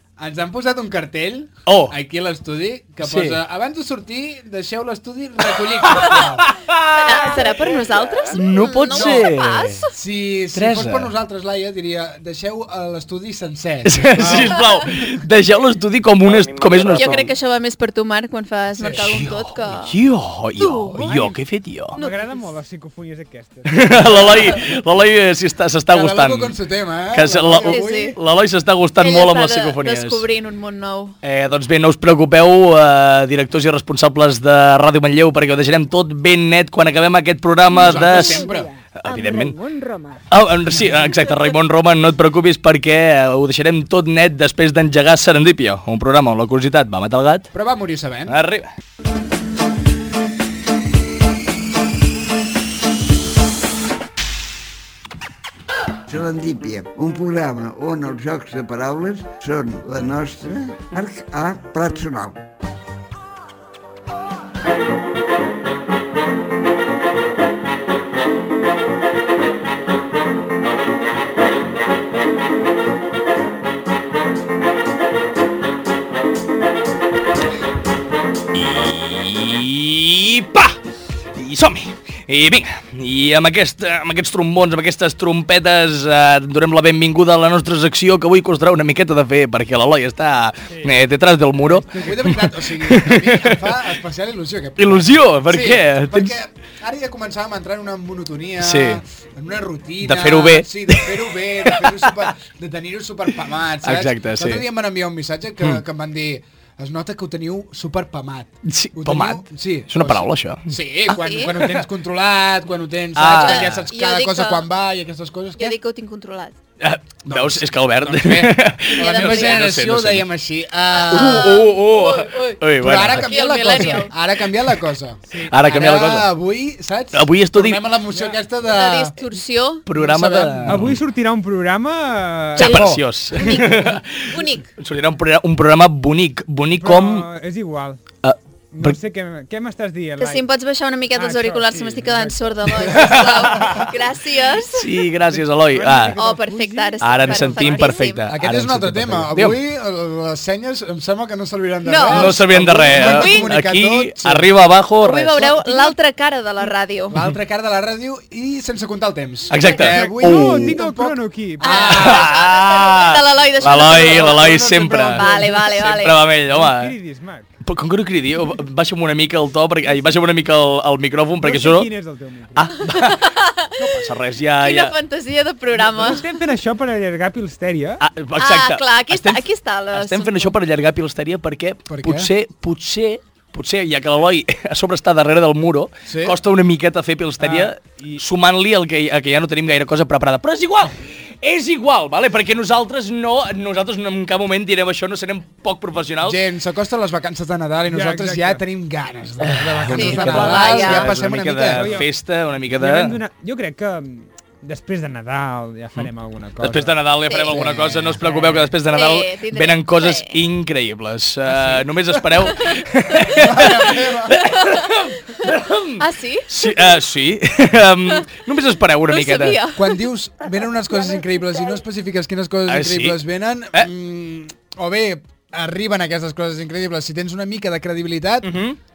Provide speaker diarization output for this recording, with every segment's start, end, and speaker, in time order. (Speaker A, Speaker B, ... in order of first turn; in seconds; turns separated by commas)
Speaker A: 0.2-6.5, Speaker B: 1.7-1.9, Speaker B: 3.0-3.4, Speaker B: 5.8-7.5, Speaker C: 6.9-9.9, Speaker B: 8.3-9.8, Speaker A: 8.9-9.2, Speaker A: 9.9-15.2, Speaker B: 10.6-11.1, Speaker B: 13.8-17.3, Speaker C: 16.8-20.0, Speaker A: 18.8-19.1, Speaker B: 18.9-22.0, Speaker C: 20.6-21.3, Speaker C: 21.9-22.5, Speaker D: 22.0-24.7, Speaker B: 23.6-26.6, Speaker A: 25.9-28.2, Speaker B: 27.1-30.2, Speaker C: 27.6-28.2, Speaker C: 29.0-31.1, Speaker B: 31.2-39.6, Speaker D: 37.7-40.3, Speaker A: 37.8-38.7, Speaker B: 40.3-47.5, Speaker A: 47.5-48.4, Speaker B: 48.3-48.7, Speaker E: 56.1-62.4, Speaker B: 78.5-80.8, Speaker B: 81.3-93.7, Speaker D: 91.7-92.2, Speaker A: 92.0-115.8, Speaker B: 94.8-96.4, Speaker B: 98.6-99.0, Speaker B: 100.0-102.3, Speaker B: 103.8-104.7, Speaker B: 108.7-110.7, Speaker C: 111.1-111.5, Speaker B: 111.5-111.8, Speaker B: 113.2-113.8, Speaker C: 113.3-114.7, Speaker C: 115.6-116.5, Speaker B: 116.8-120.3, Speaker A: 117.2-121.6, Speaker C: 119.0-119.7, Speaker C: 121.0-124.1, Speaker B: 121.1-123.3, Speaker A: 122.8-129.1, Speaker D: 125.3-125.5, Speaker B: 125.5-126.3, Speaker B: 127.1-127.8, Speaker C: 128.7-129.8, Speaker B: 129.9-131.0, Speaker A: 129.9-130.9, Speaker D: 130.7-132.7, Speaker B: 132.6-137.3, Speaker C: 132.6-134.7, Speaker A: 132.6-133.0, Speaker D: 136.7-138.0, Speaker B: 138.2-139.0, Speaker D: 138.7-140.5, Speaker C: 140.2-145.0, Speaker D: 141.1-143.1, Speaker B: 142.9-143.9, Speaker B: 144.7-146.2, Speaker D: 145.6-148.0, Speaker C: 146.2-148.3, Speaker B: 147.0-149.6, Speaker A: 148.3-154.6, Speaker C: 151.8-152.4, Speaker B: 152.1-155.4, Speaker C: 152.9-153.5, Speaker C: 155.0-157.2, Speaker A: 157.1-162.3, Speaker B: 159.5-160.8, Speaker C: 159.6-159.9, Speaker D: 159.8-162.0, Speaker C: 161.6-166.2, Speaker B: 161.7-167.0, Speaker A: 163.6-165.5, Speaker D: 166.5-167.5, Speaker B: 167.7-171.9, Speaker D: 169.8-170.1, Speaker D: 171.4-172.8, Speaker B: 172.5-174.9, Speaker C: 172.9-173.8, Speaker C: 174.6-176.2, Speaker D: 175.8-178.0, Speaker B: 178.0-196.4, Speaker C: 178.4-180.6, Speaker A: 181.9-182.3, Speaker A: 186.1-186.4, Speaker D: 187.4-188.2, Speaker A: 196.2-202.0, Speaker D: 197.9-198.6, Speaker B: 199.4-203.2, Speaker C: 199.9-201.1, Speaker D: 201.7-202.1, Speaker D: 202.7-207.1, Speaker B: 206.0-219.6, Speaker C: 207.3-207.6, Speaker A: 207.5-208.2, Speaker D: 208.2-208.7, Speaker C: 208.9-210.3, Speaker A: 213.2-214.4, Speaker C: 214.4-216.8, Speaker C: 219.1-220.0, Speaker A: 219.8-228.6, Speaker B: 222.7-223.2, Speaker B: 228.4-228.8